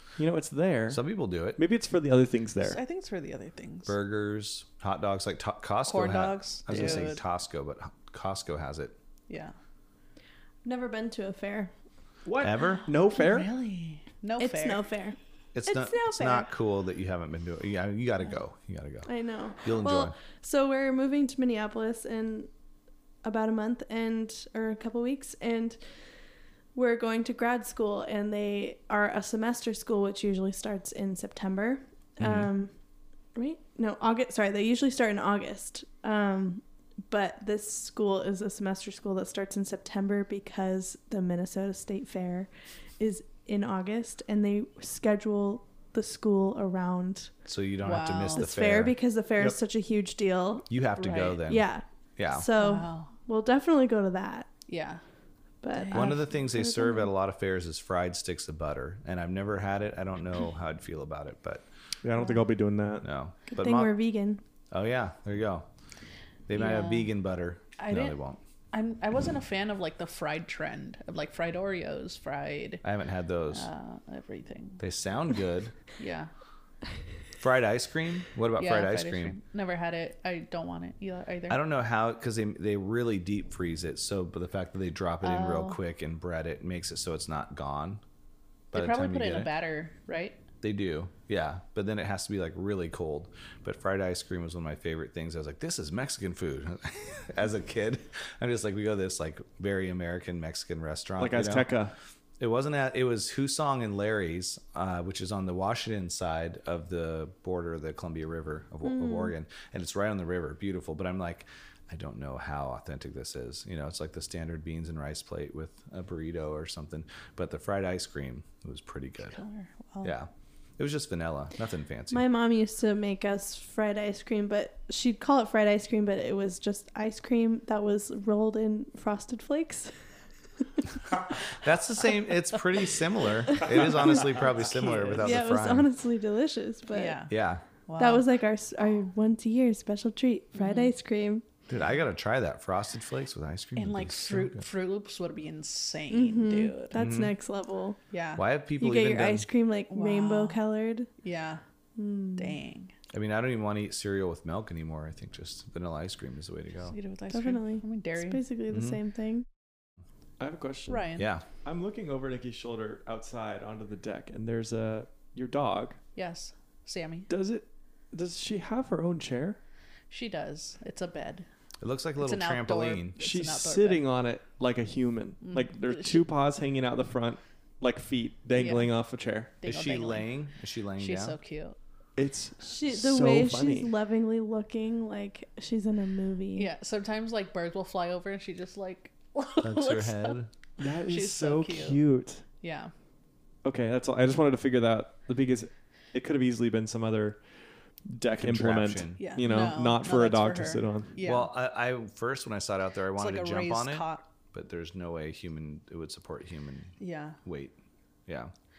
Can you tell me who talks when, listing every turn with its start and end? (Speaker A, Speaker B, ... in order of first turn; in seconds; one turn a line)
Speaker A: 0.2-1.0
Speaker B: 0.9-1.6
Speaker A: 1.6-2.8
Speaker C: 2.6-4.0
Speaker B: 3.9-9.0
Speaker C: 5.9-7.2
Speaker A: 6.7-7.1
Speaker C: 9.3-9.5
Speaker D: 10.7-11.7
Speaker A: 12.2-13.5
Speaker B: 12.4-12.8
Speaker C: 13.1-14.9
Speaker D: 14.4-16.5
Speaker B: 15.5-19.1
Speaker D: 19.1-22.5
Speaker B: 19.6-20.1
Speaker D: 23.2-25.8
Speaker D: 26.8-32.7
Speaker B: 32.2-32.5
Speaker D: 33.4-47.3
Speaker B: 47.5-49.0
Speaker C: 47.8-48.5
Speaker D: 48.4-50.7
Speaker B: 50.7-51.7
Speaker C: 51.0-51.4
Speaker D: 51.4-54.5
Speaker B: 52.2-52.5
Speaker C: 52.6-53.1
Speaker C: 54.7-55.0
Speaker D: 55.6-57.1
Speaker C: 55.7-56.2
Speaker B: 55.9-61.6
Speaker A: 62.0-63.1
Speaker C: 62.2-62.4
Speaker B: 63.0-63.9
Speaker D: 63.5-64.4
Speaker B: 64.7-65.7
Speaker B: 66.5-68.4
Speaker C: 66.5-67.1
Speaker C: 67.8-68.2
Speaker C: 68.7-72.8
Speaker B: 72.8-73.7
Speaker C: 73.5-74.8
Speaker B: 74.8-75.7
Speaker C: 76.0-76.3
Speaker B: 77.4-79.4
Speaker C: 78.6-81.6
Speaker B: 81.5-88.0
Speaker C: 85.2-85.8
Speaker B: 88.7-89.5
Speaker C: 88.7-90.4
Speaker B: 90.6-101.7
Speaker A: 101.2-101.9
Speaker B: 102.4-119.4
Speaker D: 108.8-109.3
Speaker C: 119.2-120.1
Speaker B: 120.0-122.2
Speaker D: 122.1-129.9
Speaker B: 131.5-135.9
Speaker C: 134.2-135.3
Speaker D: 135.2-137.3
Speaker C: 136.9-137.3
Speaker B: 137.3-137.7
Speaker C: 137.9-138.3
Speaker D: 138.0-141.4
Speaker C: 140.6-140.9
Speaker B: 141.7-144.7
Speaker C: 143.8-146.9
Speaker D: 146.1-148.0
Speaker B: 146.9-147.3
Speaker C: 148.1-148.4
Speaker B: 148.4-149.5
Speaker D: 148.8-151.1
Speaker C: 149.9-150.6
Speaker C: 151.2-151.6
Speaker D: 152.0-152.6
Speaker C: 152.4-152.9
Speaker B: 153.1-157.0
Speaker C: 156.9-158.4
Speaker D: 157.3-159.5
Speaker B: 158.7-159.0
Speaker A: 160.4-166.0
Speaker C: 160.9-161.3
Speaker B: 161.2-161.4
Speaker C: 166.2-167.3
Speaker A: 167.3-169.6
Speaker C: 170.1-171.5
Speaker B: 171.8-173.2
Speaker C: 172.2-174.0
Speaker A: 173.2-179.5
Speaker C: 175.4-176.2
Speaker C: 178.6-178.9
Speaker C: 179.6-180.3
Speaker B: 179.7-181.4
Speaker C: 181.0-181.8
Speaker A: 182.2-183.9
Speaker D: 182.6-186.7
Speaker C: 186.6-190.4
Speaker B: 189.6-190.5
Speaker A: 190.8-192.4
Speaker C: 191.1-192.0
Speaker C: 192.6-192.9
Speaker A: 193.6-197.4
Speaker A: 198.1-201.1
Speaker B: 198.3-199.3
Speaker C: 199.2-201.5
Speaker B: 201.2-208.5
Speaker C: 203.2-204.3
Speaker C: 207.0-207.4